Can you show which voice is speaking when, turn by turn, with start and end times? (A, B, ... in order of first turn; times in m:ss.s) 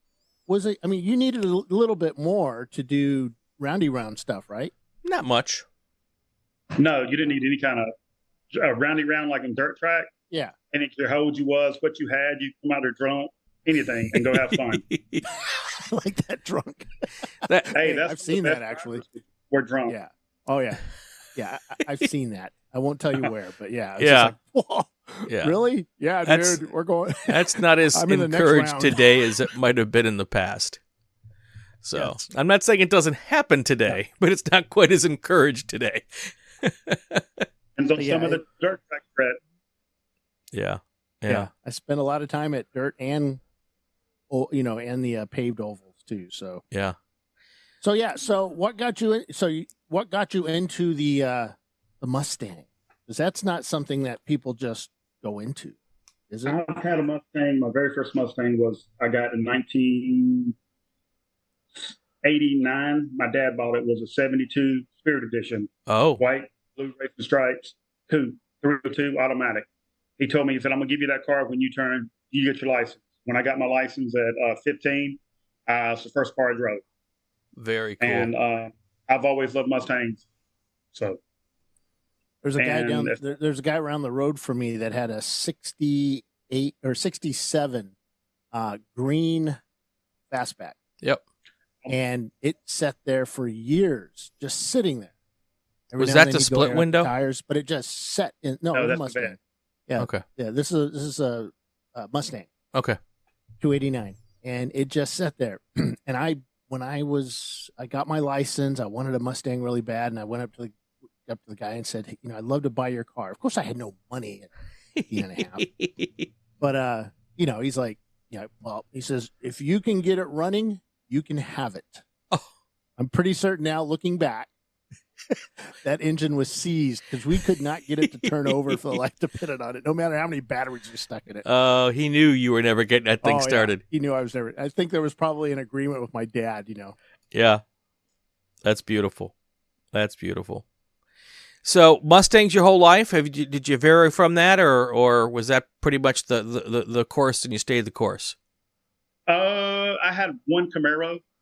0:00.5-0:04.7 A
0:05.0-0:05.6 B
0:06.8-0:07.9 C
0:08.5-0:10.1 C
0:10.7-0:14.8 C
0:14.3-0:15.3 B
0:15.4-0:19.0 A
0:17.4-0:17.7 B
0:17.7-0:20.0 C
0:19.9-0:20.8 A
0:21.4-0:29.0 A
0:24.0-0:24.3 B
0:25.3-0:25.6 B
0:26.3-0:26.6 B
0:27.3-0:30.8 B
0:31.8-0:37.4 B
0:32.0-0:32.2 A
0:37.8-0:39.4 C
0:38.0-0:38.4 A
0:40.5-0:41.5 B
0:41.3-0:43.4 A
0:44.3-0:46.6 A
0:46.7-0:47.0 B
0:47.8-0:55.8 A
0:56.3-0:56.6 A
0:56.5-1:00.5 C
1:01.8-1:09.7 C
1:05.9-1:06.2 B
1:10.2-1:16.8 C
1:17.6-1:18.3 B
1:18.0-1:20.2 C
1:20.9-1:21.2 C
1:22.4-1:27.9 A
1:22.6-1:23.2 C
1:28.5-1:29.6 A
1:30.3-1:30.8 A
1:31.9-1:35.1 A
1:35.9-1:39.4 A
1:36.0-1:37.1 B
1:38.7-1:39.4 C
1:39.9-1:42.5 A
1:40.0-1:40.2 B
1:43.6-1:54.5 A
1:55.0-1:56.3 B
1:55.1-1:55.7 A
1:56.6-2:02.0 A
2:03.0-2:04.5 A
2:05.8-2:11.4 A
2:08.2-2:08.7 B
2:11.4-2:13.8 B
2:13.2-2:17.0 A
2:17.3-2:17.6 B
2:18.6-2:19.3 B
2:19.9-2:20.6 B
2:21.6-2:28.4 B
2:29.3-2:31.2 C